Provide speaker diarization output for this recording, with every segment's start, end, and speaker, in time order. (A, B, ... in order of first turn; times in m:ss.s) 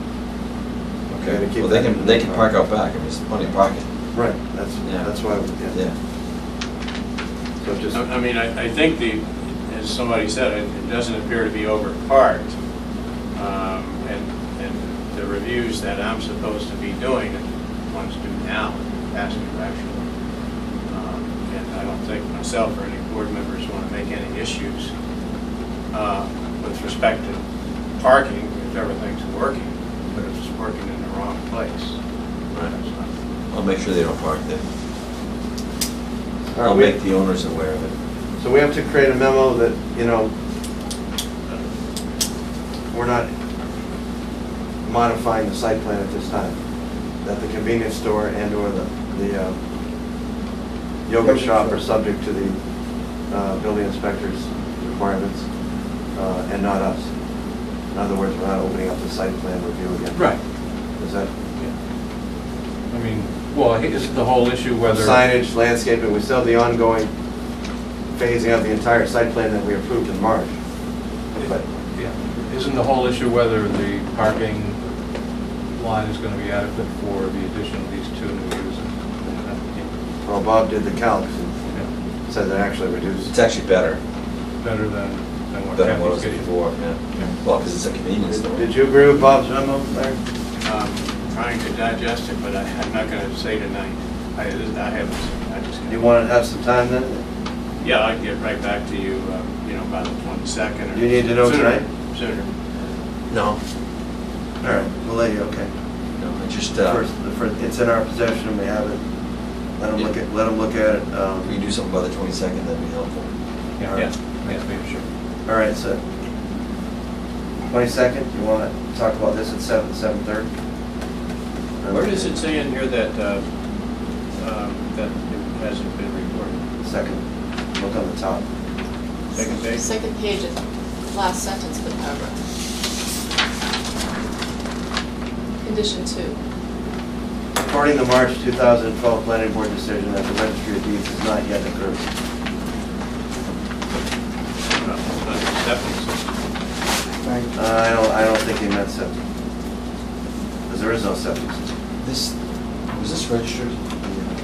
0:01.1-0:03.9 A
0:01.3-0:02.5 B
0:04.1-0:05.8 B
0:07.6-0:08.0 B
0:07.9-0:12.5 C
0:13.4-0:20.0 C
0:20.9-0:24.9 C
0:25.9-0:27.4 C
0:28.0-0:32.0 C
0:32.6-0:33.1 C
0:33.5-0:34.6 A
0:36.5-0:37.0 B
0:36.6-0:37.9 A
0:38.4-0:40.3 B
0:42.9-0:43.3 B
0:44.8-0:46.6 B
0:47.2-0:49.6 B
0:51.1-0:52.6 B
0:53.3-0:55.4 B
0:56.2-0:57.0 B
0:57.9-1:00.2 B
1:00.1-1:00.4 D
1:01.0-1:01.3 B
1:02.9-1:05.2 D
1:04.8-1:07.1 B
1:08.2-1:10.5 B
1:11.4-1:11.7 B
1:12.0-1:14.8 D
1:15.8-1:19.9 D
1:20.2-1:21.7 B
1:22.3-1:23.3 B
1:23.3-1:24.0 A
1:24.6-1:26.5 D
1:25.7-1:28.7 A
1:28.3-1:30.2 B
1:30.6-1:36.0 C
1:35.9-1:37.2 B
1:37.8-1:42.5 C
1:40.9-1:41.8 B
1:43.3-1:43.6 A
1:44.6-1:45.7 B
1:46.2-1:47.0 A
1:46.8-1:49.0 B
1:49.8-1:51.5 B
1:51.5-1:53.3 A
1:53.8-1:55.0 D
1:53.9-1:55.0 C
1:55.5-1:56.0 B
1:57.7-2:00.5 B
2:01.8-2:02.4 B
2:01.9-2:03.4 C
2:04.4-2:06.6 C
2:06.8-2:07.2 B
2:07.8-2:08.4 B
2:09.3-2:09.9 C
2:09.8-2:10.6 E
2:11.1-2:12.3 E
2:15.6-2:16.4 E
2:17.6-2:22.0 B
2:24.8-2:26.3 C
2:27.5-2:29.1 B
2:30.7-2:31.6 B
2:32.0-2:32.4 A
2:32.9-2:33.8 A
2:34.0-2:34.3 B